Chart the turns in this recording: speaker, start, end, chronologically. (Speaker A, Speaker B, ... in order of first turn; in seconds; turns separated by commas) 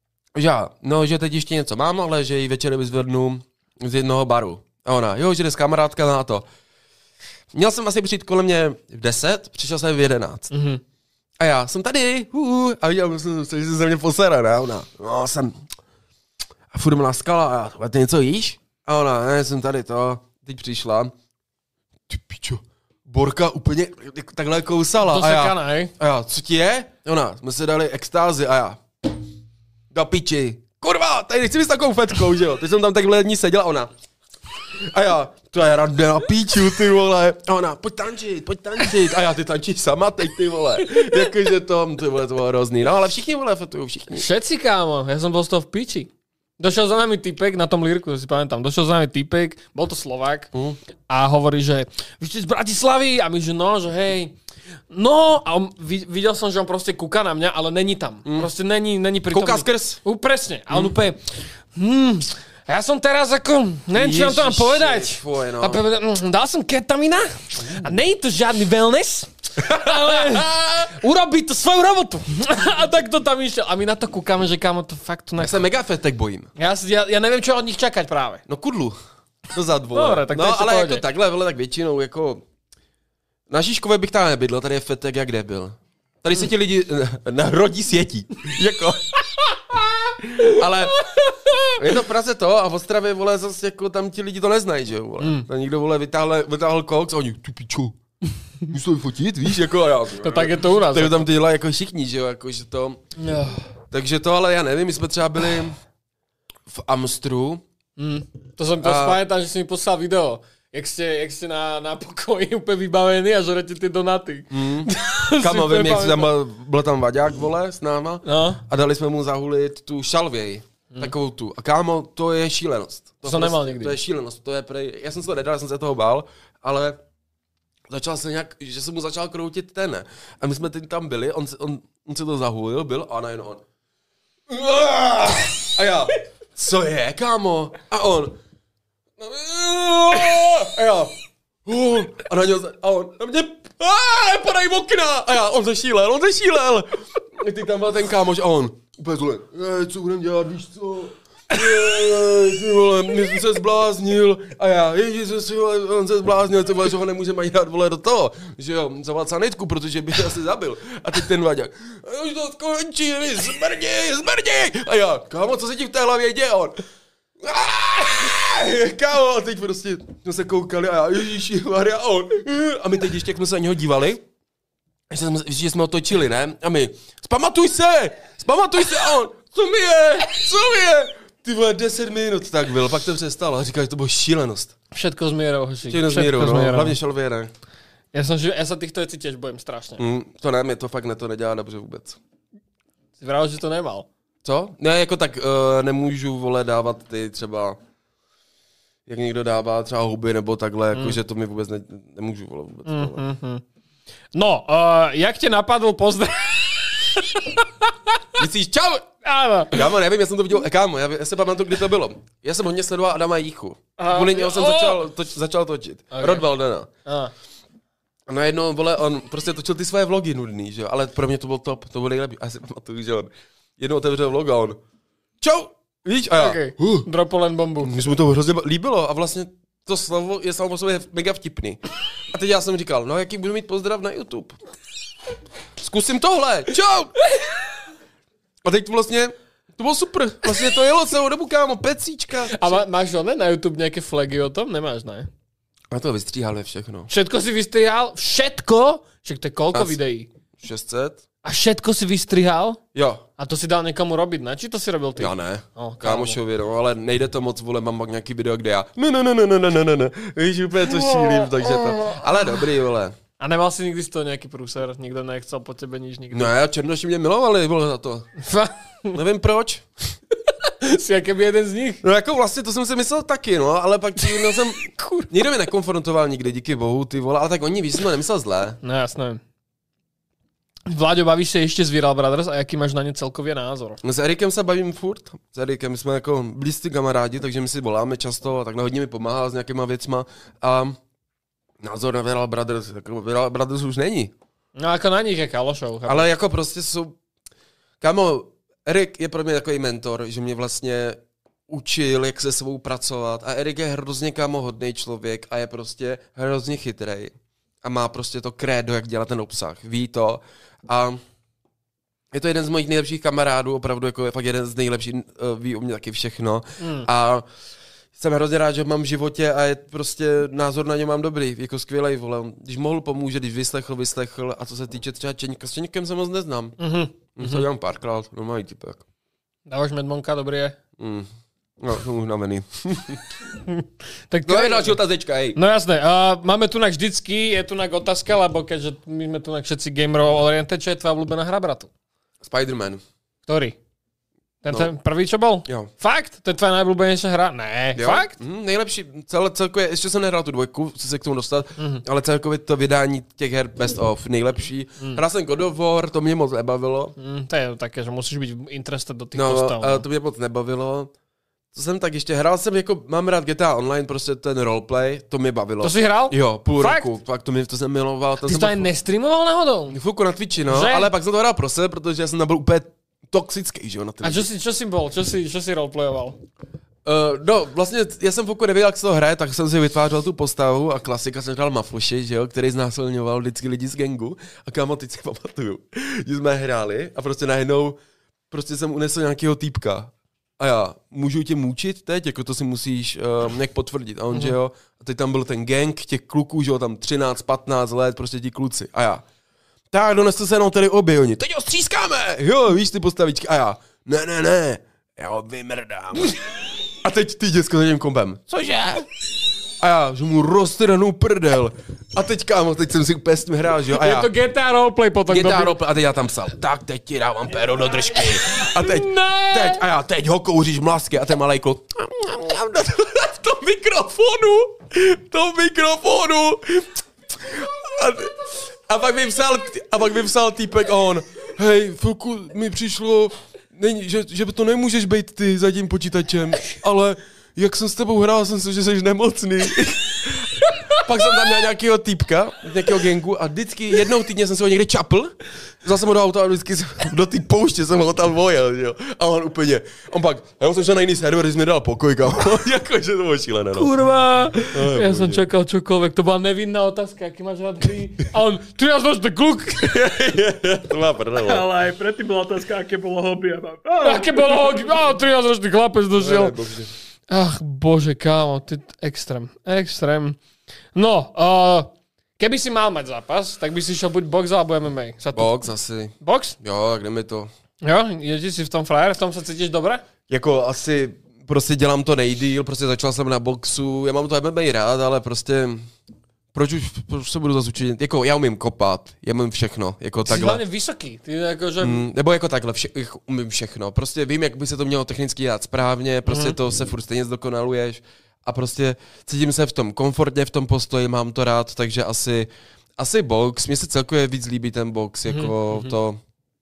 Speaker A: 0.3-6.5, Speaker A: 7.5-10.5, Speaker B: 10.5-10.8, Speaker A: 11.4-15.6, Speaker A: 16.7-21.1, Speaker A: 22.1-28.8, Speaker B: 25.1-25.9, Speaker A: 29.9-33.9, Speaker A: 34.7-44.3, Speaker B: 44.1-50.5, Speaker A: 50.5-50.8, Speaker B: 51.1-54.4, Speaker B: 54.9-75.6, Speaker A: 58.2-58.5, Speaker A: 59.3-60.0, Speaker A: 63.9-65.8, Speaker A: 67.6-67.9, Speaker A: 69.6-71.0, Speaker A: 75.4-76.5, Speaker B: 76.6-78.4, Speaker A: 78.5-79.0, Speaker A: 79.5-82.4, Speaker B: 79.9-81.0, Speaker A: 83.5-89.0, Speaker B: 90.3-91.7, Speaker A: 90.4-91.0, Speaker A: 91.8-98.0, Speaker B: 95.2-95.5, Speaker A: 98.7-103.0, Speaker B: 100.2-101.2, Speaker B: 103.2-103.6, Speaker A: 103.9-105.8, Speaker A: 106.7-107.6, Speaker B: 108.0-116.3, Speaker A: 108.8-109.2, Speaker A: 114.5-127.0, Speaker B: 118.2-118.6, Speaker B: 123.2-124.0, Speaker A: 127.9-133.6, Speaker A: 134.5-138.4, Speaker A: 139.2-141.1, Speaker A: 141.7-166.8, Speaker A: 167.4-174.2, Speaker A: 175.1-184.8, Speaker B: 184.9-187.0, Speaker A: 185.9-187.5, Speaker B: 188.1-190.1, Speaker A: 190.0-192.2, Speaker B: 193.2-194.1, Speaker A: 194.4-197.8, Speaker A: 199.1-203.2, Speaker B: 202.9-203.6, Speaker B: 204.3-207.9, Speaker A: 208.4-209.1, Speaker B: 209.2-209.8, Speaker A: 209.7-216.9, Speaker B: 214.0-215.0, Speaker B: 216.1-216.5, Speaker B: 217.1-217.3, Speaker A: 218.3-224.8, Speaker A: 225.4-227.1, Speaker B: 226.4-228.0, Speaker A: 227.8-234.6, Speaker A: 235.8-237.1, Speaker A: 238.6-242.8, Speaker B: 242.5-245.3, Speaker A: 245.9-247.1, Speaker B: 247.1-250.3, Speaker A: 250.6-251.2, Speaker B: 251.4-252.8, Speaker A: 252.9-253.2, Speaker B: 253.4-256.4, Speaker A: 255.2-263.2, Speaker B: 260.9-262.2, Speaker B: 263.4-266.5, Speaker A: 266.3-268.3, Speaker B: 268.4-269.2, Speaker A: 269.1-270.1, Speaker B: 270.6-272.0, Speaker A: 272.0-278.8, Speaker B: 274.8-275.3, Speaker B: 278.8-279.4, Speaker B: 280.9-284.0, Speaker A: 284.0-291.0, Speaker A: 291.8-294.3, Speaker B: 294.8-296.3, Speaker A: 296.1-297.2, Speaker A: 298.0-311.2, Speaker A: 312.3-317.4, Speaker B: 316.8-317.1, Speaker A: 318.1-326.8, Speaker B: 326.8-327.7, Speaker A: 327.4-329.1, Speaker B: 329.7-330.8, Speaker A: 331.0-331.3, Speaker A: 331.8-333.2, Speaker B: 333.7-335.0, Speaker A: 334.4-335.6, Speaker B: 335.6-341.9, Speaker A: 342.4-343.0, Speaker B: 343.5-343.8, Speaker B: 344.6-348.4, Speaker A: 347.9-357.1, Speaker B: 351.8-352.0, Speaker B: 357.2-360.1, Speaker A: 359.4-361.1, Speaker A: 361.7-368.9, Speaker B: 365.8-367.1, Speaker B: 368.4-370.0, Speaker A: 369.9-374.5, Speaker B: 370.7-371.1, Speaker B: 374.2-376.4, Speaker A: 377.1-388.0, Speaker A: 388.5-399.2, Speaker A: 399.9-406.4, Speaker A: 407.0-408.6, Speaker B: 408.5-409.0, Speaker A: 409.8-414.3, Speaker B: 413.9-415.8, Speaker A: 415.3-453.9, Speaker B: 418.5-419.8, Speaker B: 453.8-459.9, Speaker A: 454.7-455.4, Speaker A: 459.8-461.7, Speaker C: 461.4-465.0, Speaker B: 464.0-466.6, Speaker A: 466.2-466.9, Speaker B: 467.3-470.4, Speaker B: 470.9-475.6, Speaker A: 475.3-477.5, Speaker B: 476.2-476.6, Speaker B: 477.8-480.1, Speaker A: 480.3-485.9, Speaker A: 486.5-490.6, Speaker B: 490.2-492.1, Speaker A: 491.8-506.2, Speaker B: 496.3-496.6, Speaker B: 505.3-505.9